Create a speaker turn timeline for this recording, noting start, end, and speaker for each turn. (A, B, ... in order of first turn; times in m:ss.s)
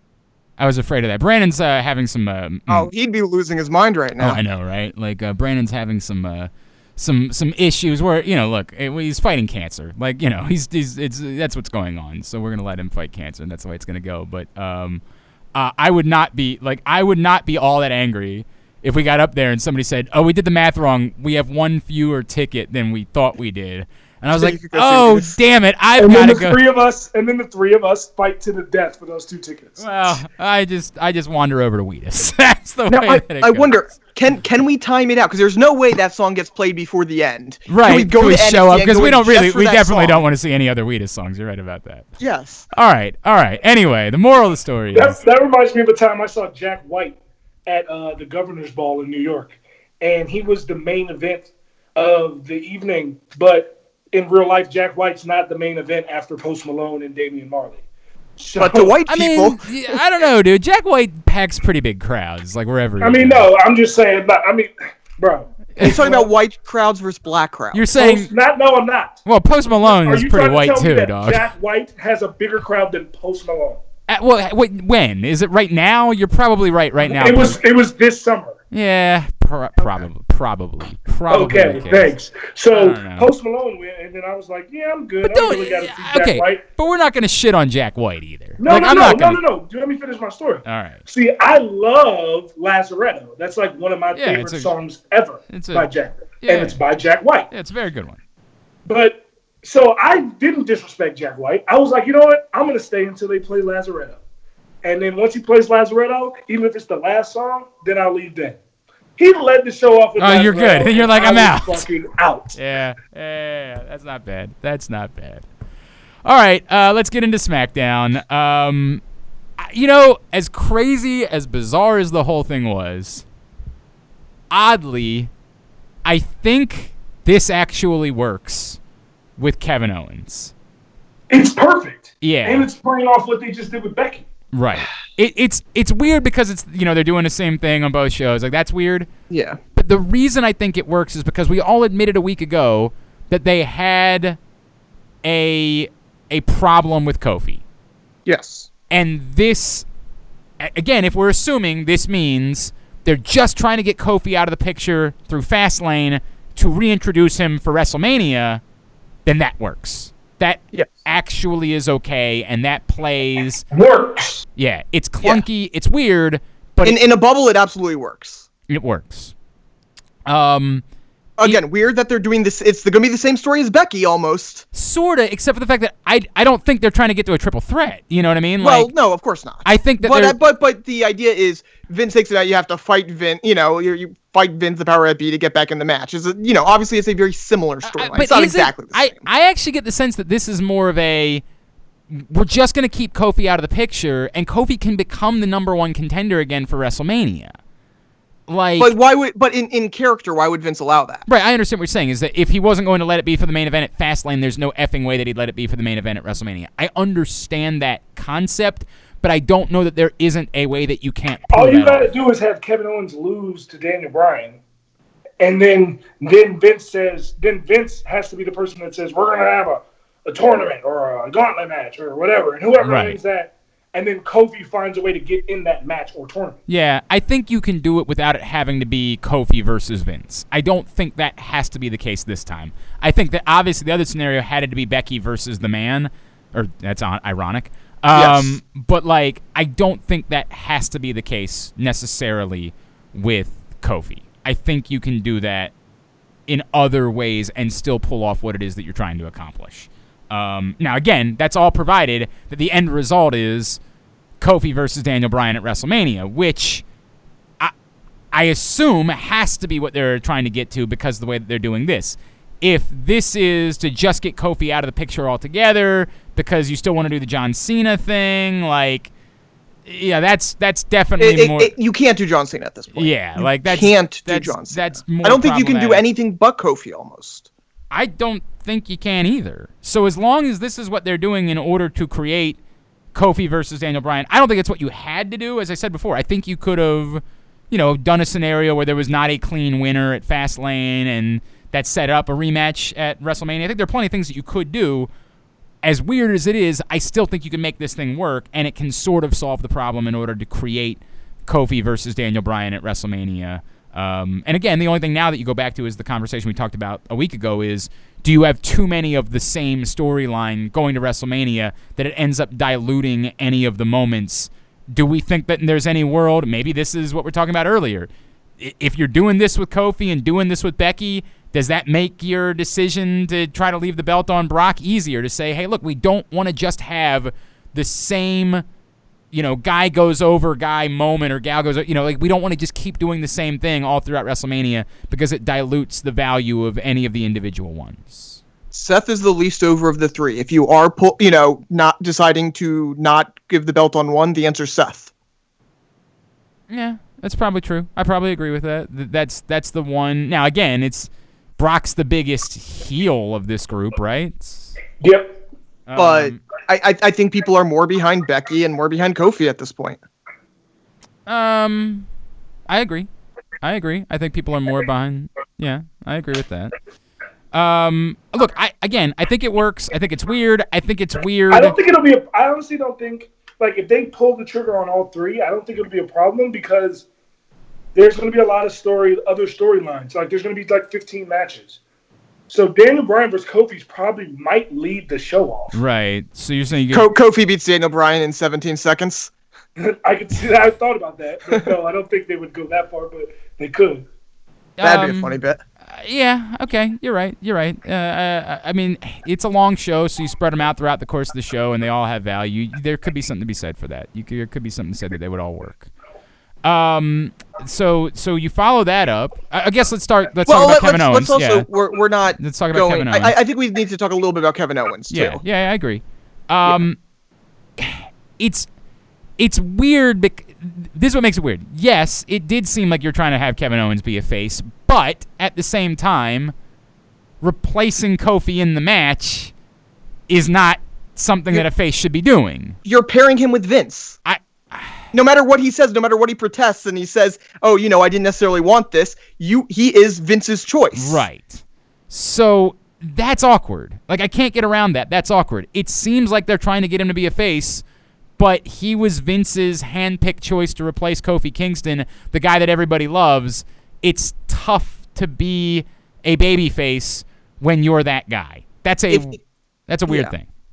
0:00.6-0:02.9 A
0:02.7-0:04.4 B
0:04.2-0:15.0 A
0:15.6-0:26.6 A
0:24.3-0:25.4 B
0:26.0-0:30.2 C
0:29.8-0:33.7 A
0:32.9-0:40.2 B
0:37.7-0:42.1 A
0:42.2-0:42.7 B
0:42.7-0:45.2 A
0:44.9-0:57.8 C
0:58.4-0:59.0 C
0:58.6-1:00.0 B
0:59.1-1:03.5 A
1:03.0-1:06.3 C
1:05.8-1:06.0 A
1:05.8-1:07.9 B
1:07.7-1:08.3 A
1:08.0-1:09.2 C
1:09.2-1:11.5 A
1:09.7-1:13.8 C
1:14.1-1:17.6 A
1:17.0-1:18.6 C
1:18.7-1:22.2 A
1:19.8-1:20.1 C
1:21.3-1:26.6 C
1:22.7-1:23.3 A
1:25.2-1:29.4 A
1:28.6-1:37.5 C
1:30.6-1:31.0 A
1:34.1-1:34.7 A
1:35.5-1:35.9 A
1:36.4-1:36.8 A
1:37.5-1:38.2 A
1:38.9-1:44.2 C
1:44.8-1:48.6 C
1:49.2-1:52.6 C
1:50.2-1:51.9 A
1:52.5-1:55.5 A
1:56.2-1:59.0 A
1:59.6-2:03.2 A
2:04.5-2:05.3 A
2:06.0-2:08.8 A
2:09.4-2:10.5 A
2:11.3-2:14.2 C
2:12.2-2:12.7 A
2:14.5-2:19.1 A
2:19.3-2:19.6 B
2:19.8-2:24.4 A
2:25.2-2:27.6 A
2:28.3-2:28.7 B
2:28.9-2:29.9 A
2:30.6-2:38.6 A
2:39.3-2:43.7 A
2:43.7-2:44.4 C
2:44.6-2:47.0 A
2:46.8-2:48.5 B
2:48.7-2:49.3 A
2:50.3-2:50.8 A
2:51.4-2:54.6 B
2:54.7-2:58.9 A
2:58.6-3:09.3 B
2:59.6-3:00.4 A
3:07.8-3:11.4 A
3:12.1-3:17.6 A
3:18.5-3:19.0 A
3:18.8-3:21.3 B
3:21.3-3:32.1 A
3:31.5-3:34.6 C
3:35.4-3:46.6 C
3:42.8-3:43.2 A
3:46.7-4:05.7 A
3:58.1-3:58.6 B
4:06.5-4:13.8 A
4:14.4-4:16.8 A
4:18.3-4:29.1 A
4:29.9-4:31.7 A
4:31.2-4:37.5 B
4:32.9-4:36.0 A
4:37.9-4:42.6 A
4:43.1-4:55.1 A
4:55.8-5:28.6 A
5:29.3-5:38.4 A
5:38.7-5:45.1 B
5:46.7-5:54.7 A
5:55.0-5:55.4 C
5:55.9-5:56.4 A
5:56.0-6:00.0 B
6:01.3-6:02.1 A
6:02.7-6:03.1 A
6:03.6-6:06.7 A
6:07.5-6:11.8 A
6:11.5-6:17.0 C
6:18.0-6:21.8 C
6:22.5-6:25.8 C
6:25.7-6:27.1 A
6:26.9-6:29.3 B
6:29.8-6:34.1 C
6:34.8-6:45.9 A
6:34.8-6:35.6 B
6:46.6-6:51.7 A
6:50.5-6:55.4 B
6:52.4-6:53.4 A
6:55.1-6:57.0 A
6:57.8-6:58.7 A
6:59.4-7:06.5 A
7:07.4-7:09.5 A
7:10.3-7:12.8 A
7:12.8-7:14.2 B
7:14.2-7:15.1 A
7:15.1-7:21.2 B
7:20.9-7:27.8 A
7:28.4-7:40.5 A
7:40.1-7:40.3 B